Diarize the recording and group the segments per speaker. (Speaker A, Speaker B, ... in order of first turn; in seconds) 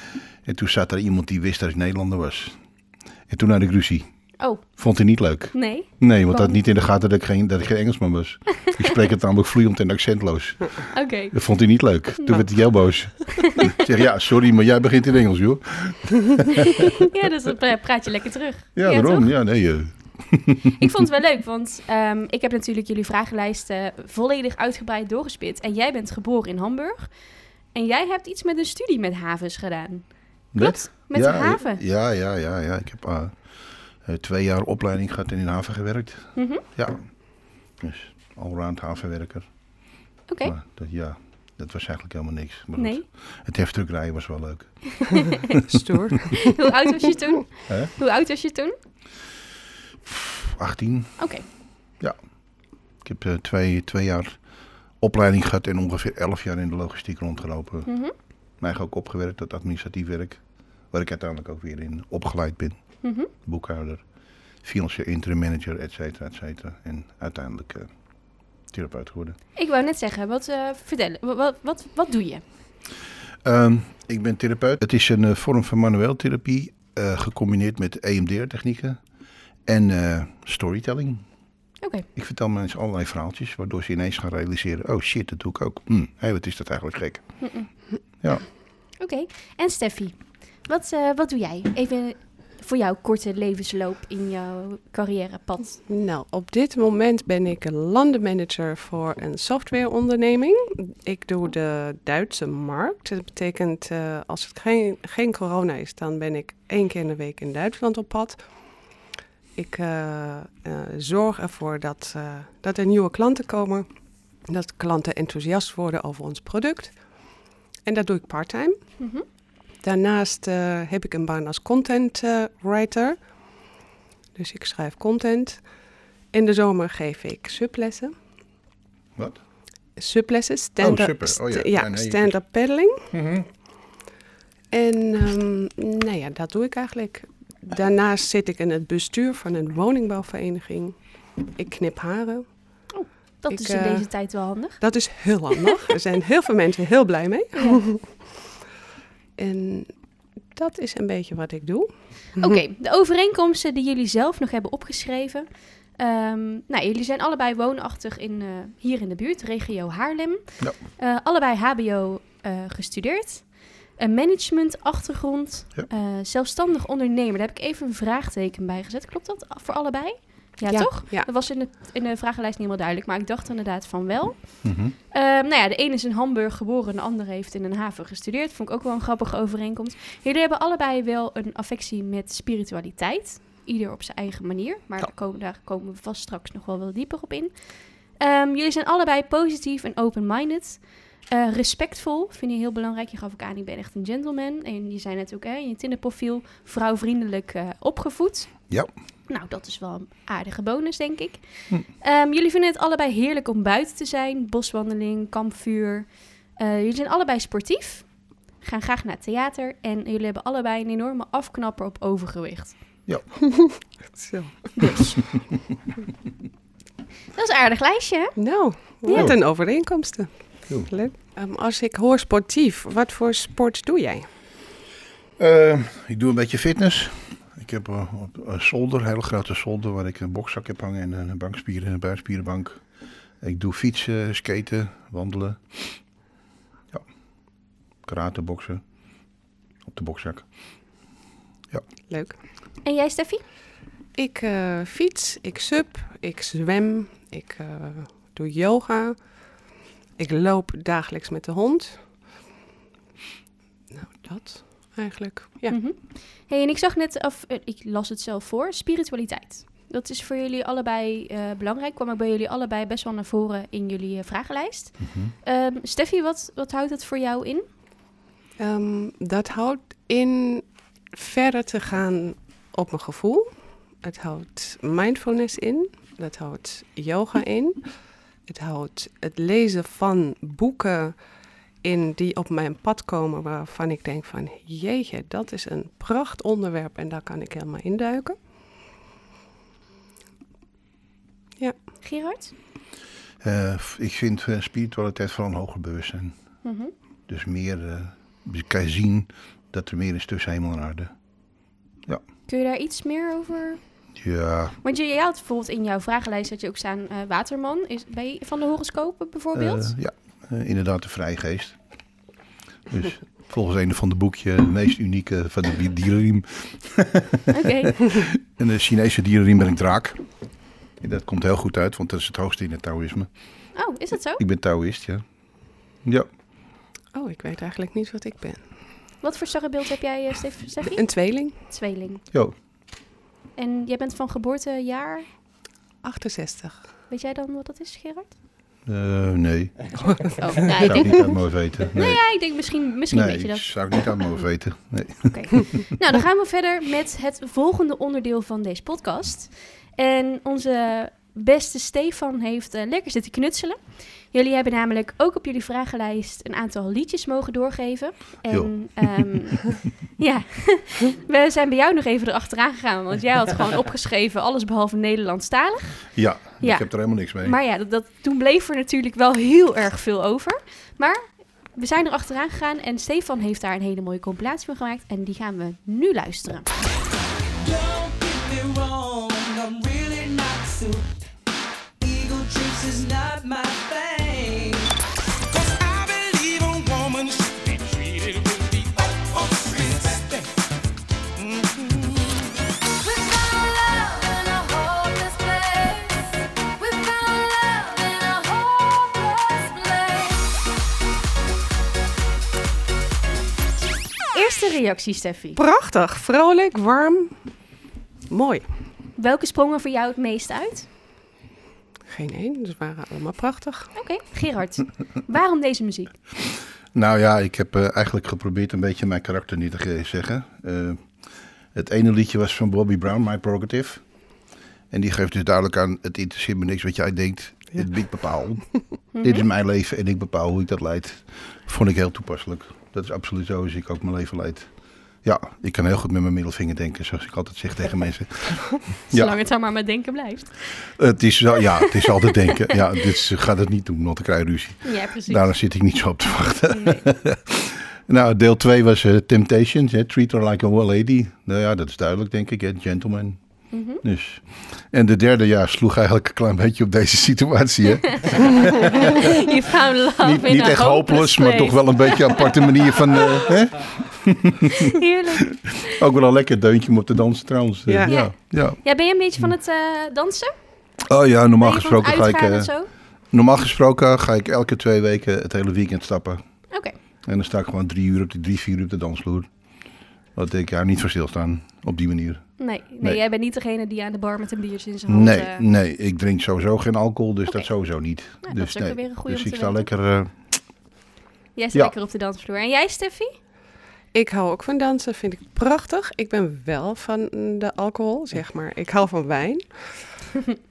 Speaker A: 0.4-2.6, 3.3-4.0, 4.8-17.1, 18.8-20.9, 30.5-33.4, 34.0-37.0, 37.8-39.5, 40.4-45.3, 50.1-51.2, 53.0-54.4, 55.0-57.9, 58.6-62.8, 63.4-64.0, 64.6-67.9, 68.7-69.4, 73.4-79.0, 79.7-81.2, 82.1-87.4, 130.8-132.4, 133.1-133.5, 174.6-174.9, 219.1-219.4, 225.4-232.8, 233.4-236.0, 238.0-238.8, 239.9-240.4, 265.0-265.3, 293.4-296.4, 297.3-301.1, 304.1-304.8, 309.5-311.8, 312.9-320.2, 321.0-323.3, 324.4-325.2, 338.9-340.0, 340.6-342.2, 343.1-345.8, 358.5-359.5, 366.1-367.6, 416.9-421.1, 421.7-424.0, 424.9-434.7, 435.2-439.4, 440.9-453.4, 454.0-459.3, 460.2-465.0, 465.7-468.8, 471.1-472.7, 473.3-476.4, 477.2-479.5, 480.4-482.5, 485.1-490.6
Speaker B: 5.5-6.5, 8.6-8.9, 10.9-11.3, 13.4-13.8, 17.0-19.3, 20.8-27.1, 27.7-31.8, 36.4-36.6, 40.3-40.5, 42.8-43.0, 44.9-45.5, 46.3-48.8, 51.2-51.5, 57.9-58.1, 63.0-63.3, 69.6-72.4, 81.8-82.1, 87.4-87.7, 89.0-95.8, 119.0-119.2, 142.9-144.8, 147.6-147.8, 152.4-155.5, 156.0-187.6, 188.2-198.5, 199.3-208.1, 208.6-212.8, 214.8-215.2, 217.3-218.4, 219.0-219.3, 242.8-243.4, 255.7-267.6, 292.0-292.5, 296.6-296.9, 302.5-303.8, 304.8-309.9, 317.5-318.0, 323.8-324.4, 329.2-332.2, 333.6-335.3, 337.1-338.3, 340.4-343.7, 345.3-376.7, 404.3-405.6, 409.2-410.9, 414.0-416.1, 429.1-429.4, 439.1-440.8, 442.0-442.5, 444.8-445.5, 446.7-447.0, 453.7-454.0, 458.2-463.2, 464.9-466.0, 468.1-470.5, 471.6-472.9, 482.6-485.6, 488.4-489.9, 491.6-493.4
Speaker C: 45.6-46.6, 95.9-108.4, 109.6-113.9, 114.5-117.0, 117.8-118.8, 119.8-123.2, 124.4-125.7, 126.3-128.1, 130.0-133.1, 134.7-141.0, 141.5-142.8, 143.5-144.1, 144.8-148.1, 149.4-149.9, 150.6-152.6, 170.7-171.3, 213.5-214.9, 218.4-224.3, 242.1-242.4, 244.2-249.2, 250.2-252.0, 253.9-255.8, 268.6-277.8, 278.5-281.2, 281.8-288.4, 327.1-328.6, 330.9-331.6, 336.0-336.8, 340.0-340.4, 405.6-407.4, 408.3-408.6, 412.1-413.9, 467.9-468.2, 494.1-500.1
Speaker D: 377.6-381.1, 382.0-385.0, 385.5-390.6, 391.4-400.6